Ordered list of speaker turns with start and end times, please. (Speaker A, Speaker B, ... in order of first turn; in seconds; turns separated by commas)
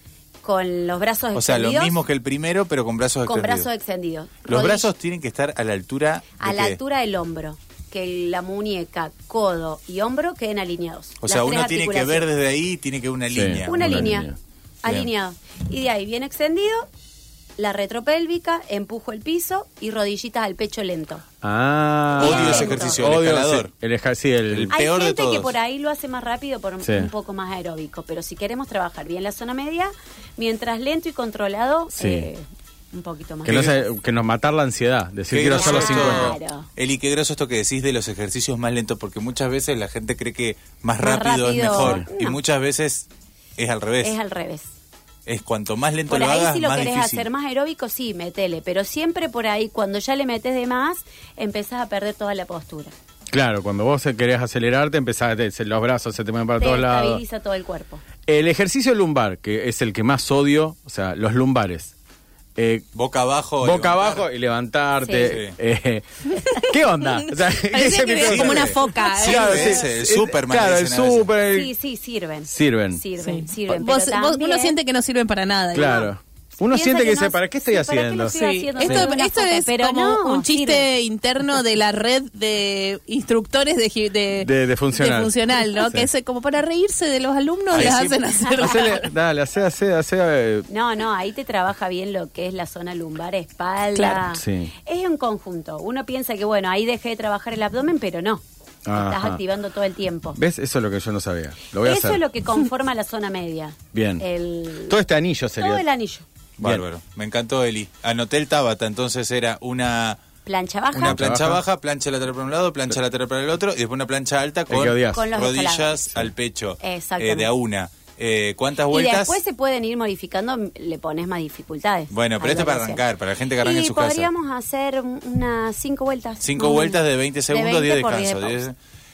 Speaker A: 0.4-2.0, Speaker B: 1.4-3.7, Speaker A: 3.3-4.9, Speaker B: 4.5-6.8, Speaker A: 6.4-12.3, Speaker B: 11.2-14.1, Speaker C: 13.3-14.4, Speaker A: 13.6-14.3, Speaker A: 14.8-16.9, Speaker A: 17.6-21.2, Speaker C: 21.4-24.7, Speaker A: 22.2-23.1, Speaker B: 22.2-23.7, Speaker B: 24.5-25.6, Speaker A: 24.7-33.8, Speaker C: 26.8-27.1, Speaker C: 31.9-32.3, Speaker C: 33.4-36.4, Speaker B: 33.5-33.8, Speaker B: 35.3-44.2, Speaker A: 35.5-36.7, Speaker A: 41.0-42.4, Speaker C: 41.7-42.1, Speaker A: 44.0-44.6, Speaker B: 45.2-47.3, Speaker A: 46.1-52.9, Speaker C: 53.3-57.2, Speaker A: 56.6-58.0, Speaker C: 58.3-61.9, Speaker C: 62.6-62.9, Speaker B: 62.9-64.2, Speaker C: 63.6-71.7, Speaker A: 65.0-65.4, Speaker B: 65.2-65.5, Speaker D: 66.4-69.8, Speaker B: 68.2-71.3, Speaker A: 71.5-74.8, Speaker C: 72.5-73.0, Speaker D: 73.2-76.1, Speaker C: 75.7-79.1, Speaker A: 76.6-80.9, Speaker D: 78.2-89.0, Speaker C: 84.4-86.1, Speaker B: 87.7-88.2, Speaker C: 88.5-90.7, Speaker A: 90.7-98.4, Speaker D: 94.0-94.2, Speaker C: 94.3-94.7, Speaker C: 98.8-99.4, Speaker A: 98.9-100.4, Speaker C: 100.4-102.2, Speaker A: 101.8-105.0, Speaker C: 103.9-104.2, Speaker C: 104.8-105.8, Speaker A: 105.6-106.2, Speaker B: 106.6-110.2, Speaker A: 110.5-111.2, Speaker B: 110.9-119.4, Speaker C: 111.0-111.6, Speaker C: 114.7-115.3, Speaker A: 115.1-116.0, Speaker A: 116.8-117.5, Speaker A: 118.9-123.0, Speaker B: 122.1-124.3, Speaker A: 123.6-128.6, Speaker B: 126.4-128.7